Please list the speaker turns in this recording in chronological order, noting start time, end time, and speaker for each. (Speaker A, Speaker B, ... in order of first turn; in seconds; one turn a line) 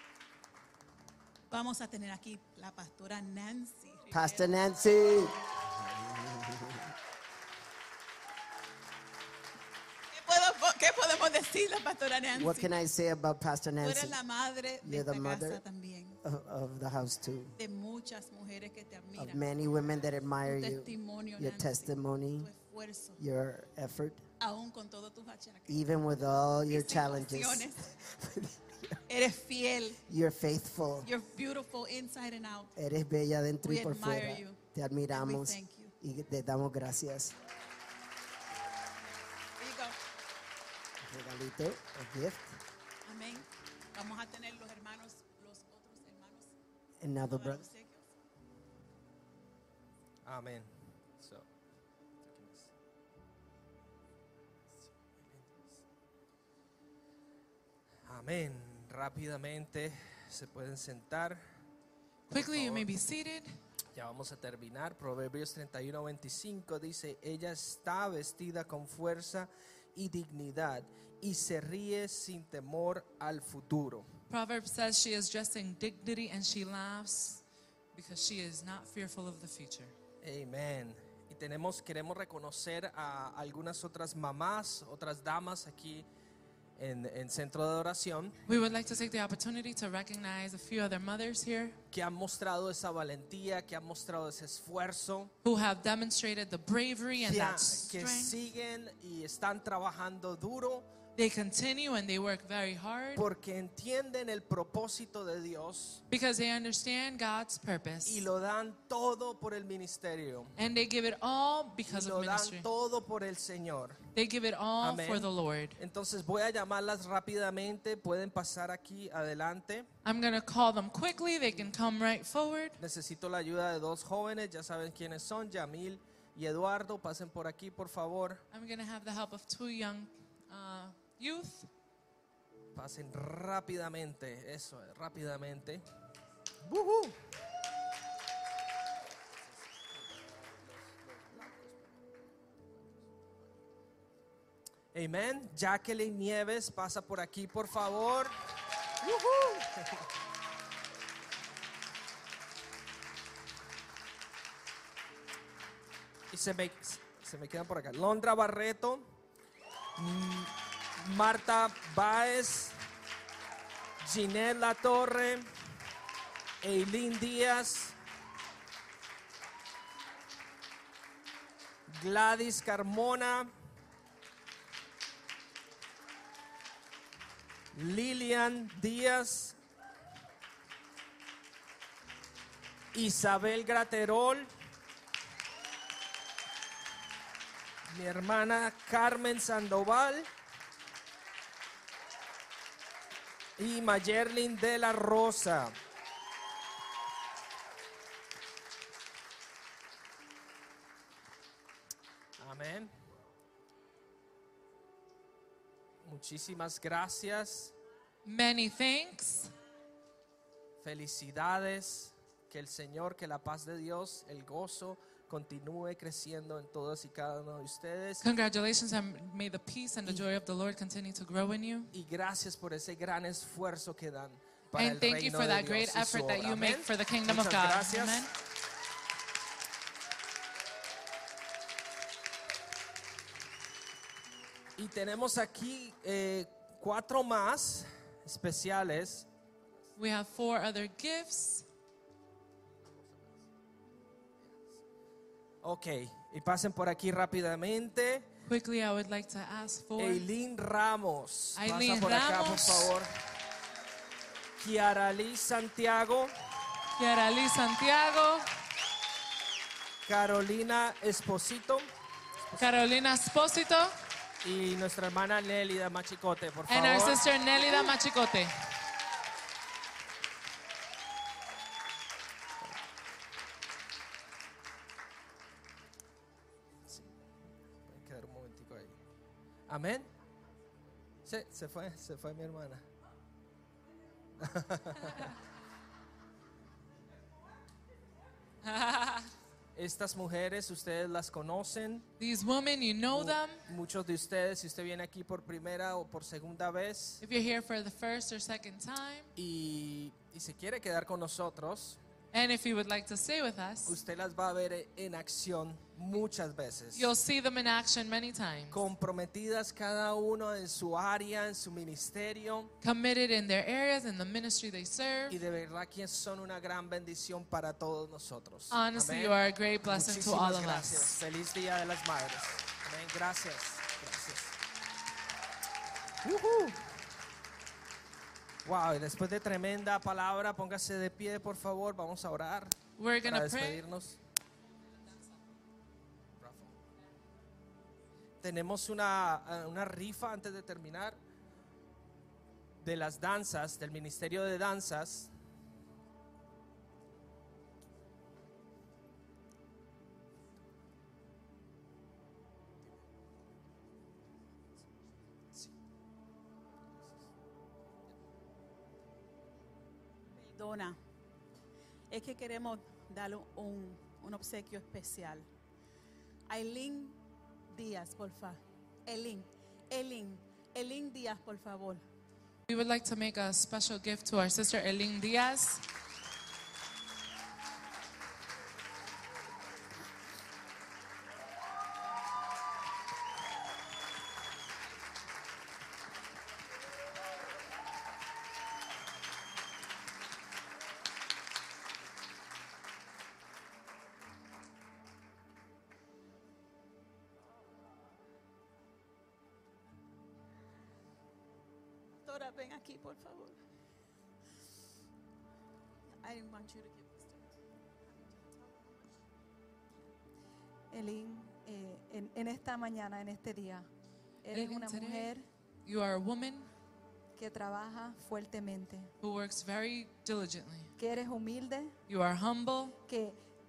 Speaker A: 1.5-4.6
Speaker B: 4.1-6.8
Speaker A: 10.1-12.7
Speaker B: 12.3-14.2
Speaker A: 13.8-16.2
Speaker B: 14.8-15.6
Speaker B: 16.2-17.6
Speaker A: 17.6-19.5
Speaker B: 19.2-22.5
Speaker A: 20.4-23.2
Speaker B: 23.2-24.2
Speaker A: 24.4-25.9
Speaker B: 25.7-29.0
Speaker A: 26.7-27.8
Speaker A: 29.1-30.0
Speaker B: 30.1-31.1
Speaker A: 31.0-32.7
Speaker B: 32.8-37.3
Speaker A: 33.6-35.9
Speaker A: 39.6-40.0
Speaker B: 41.0-42.6
Speaker A: 43.0-46.5
Speaker B: 47.0-47.6
Speaker A: 47.2-48.1
Speaker C: 50.2-51.5
Speaker C: 52.2-52.7
Speaker C: 55.2-55.6
Speaker C: 58.1-61.4
Speaker D: 62.3-63.5
Speaker C: 62.3-63.0
Speaker C: 63.9-74.1
Speaker D: 74.3-79.9
Speaker C: 80.2-86.1
Speaker C: 86.8-88.4
Speaker D: 88.5-91.8
Speaker C: 91.9-95.3
Speaker D: 95.4-98.4
Speaker C: 97.2-100.9
Speaker D: 101.2-103.2
Speaker C: 103.2-106.0
Speaker D: 106.1-108.2
Speaker C: 108.0-110.5
Speaker D: 110.6-112.7
Speaker C: 111.8-114.0
Speaker D: 114.1-115.8
Speaker C: 114.8-119.9
Speaker D: 120.0-122.8
Speaker C: 122.8-128.4
Speaker D: 128.5-131.7
Speaker C: 132.7-135.8
Speaker C: 136.6-137.2
Speaker C: 139.4-143.4
Speaker C: 144.9-148.3
Speaker C: 149.0-150.0
Speaker C: 156.3-159.1
Speaker C: 160.0-162.8
Speaker C: 164.0-165.5
Speaker C: 166.6-167.9
Speaker C: 171.9-173.5
Speaker C: 177.7-179.6
Speaker C: 182.9-184.5
Speaker C: 187.9-190.3
Speaker C: 193.6-195.8
Speaker C: 202.4-202.9
Speaker C: 206.0-207.7
Speaker D: 208.2-209.5
Speaker C: 210.8-218.2
Speaker D: 218.2-221.9
Speaker C: 221.9-228.3
Speaker D: 224.7-228.3
Speaker C: 234.8-239.3
Speaker D: 240.0-241.7
Speaker C: 242.9-243.4
Speaker C: 245.6-248.3
Speaker D: 248.4-250.3
Speaker C: 250.0-253.1
Speaker D: 251.6-252.9
Speaker C: 254.6-256.3
Speaker D: 257.0-258.5
Speaker C: 260.0-261.9
Speaker C: 262.4-262.9
Speaker D: 262.6-263.9
Speaker C: 264.4-267.2
Speaker D: 266.7-268.5
Speaker C: 277.9-279.0
Speaker C: 279.7-280.1
Speaker C: 281.2-282.8
Speaker C: 284.4-285.3
Speaker D: 288.6-289.3
Speaker C: 289.7-292.1
Speaker D: 292.2-293.6
Speaker C: 293.1-297.2
Speaker D: 297.2-299.3
Speaker C: 299.4-302.0
Speaker D: 302.3-304.0
Speaker C: 303.9-307.1
Speaker D: 306.9-308.8
Speaker C: 308.7-312.7
Speaker D: 312.8-315.4
Speaker C: 315.3-324.5
Speaker D: 318.7-321.2
Speaker C: 326.2-326.8
Speaker C: 328.6-334.2
Speaker D: 333.0-333.8
Speaker C: 336.4-336.8
Speaker C: 338.4-341.2
Speaker C: 342.8-345.3
Speaker A: 360.4-361.0
Speaker A: 362.1-365.4
Speaker A: 366.5-367.2
Speaker A: 367.7-372.0
Speaker D: 372.7-375.8
Speaker A: 402.2-403.6
Speaker A: 406.2-407.5
Speaker A: 408.1-408.8
Speaker E: 410.9-413.9
Speaker E: 414.4-415.4
Speaker D: 414.5-415.3
Speaker D: 415.8-416.7
Speaker E: 417.4-419.1
Speaker D: 419.2-420.9
Speaker E: 421.0-422.0
Speaker D: 422.1-423.0
Speaker E: 423.1-423.4